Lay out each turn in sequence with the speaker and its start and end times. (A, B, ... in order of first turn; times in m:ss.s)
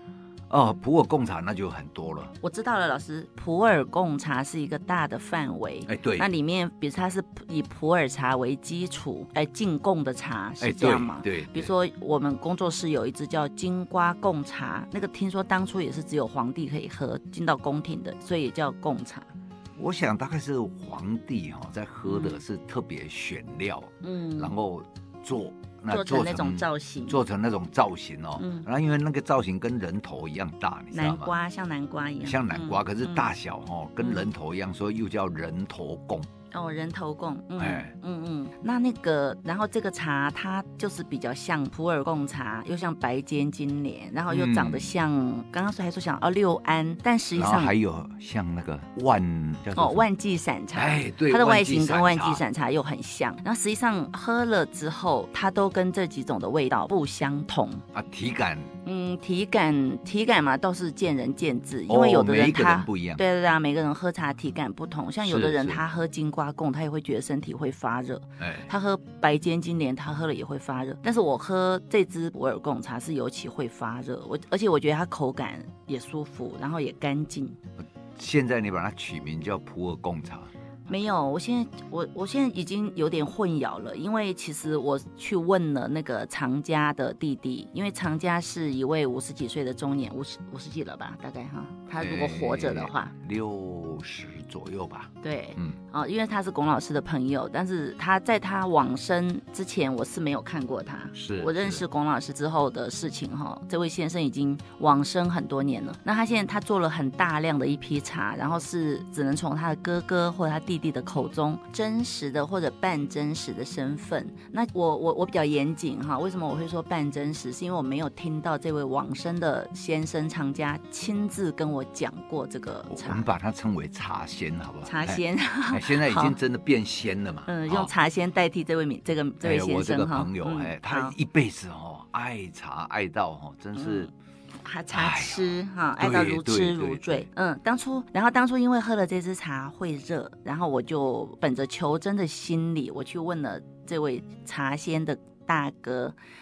0:00.5-0:02.3 A
0:02.4-0:19.3 B
0:05.9-0:06.3 A
0:10.6-0:11.7 A
0:19.8-0:31.3 A
0:22.0-0:22.4 B
0:24.0-0:24.5 B
0:25.9-0:27.2 B
0:28.4-0:28.7 B
0:30.9-0:33.3 B
0:32.2-0:36.3 A
0:34.0-0:34.3 B
0:36.5-0:47.7 B
0:37.6-0:37.9 A
0:44.3-0:44.9 A
0:47.4-0:50.0 A
0:49.8-0:57.8 B
0:50.8-0:52.4 A
0:57.9-0:58.7 A
0:58.8-1:17.6 B
1:01.9-1:03.2 A
1:05.2-1:05.8 A
1:08.4-1:08.7 A
1:17.8-1:20.5 A
1:20.9-1:33.1 B
1:32.0-1:35.8 A
1:35.2-2:03.3 B
1:41.2-1:41.8 A
2:02.9-2:07.9 A
2:04.8-2:06.4 B
2:07.5-2:11.2 B
2:09.4-2:14.1 A
2:13.8-2:14.1 B
2:14.6-2:26.2 B
2:14.9-2:17.3 A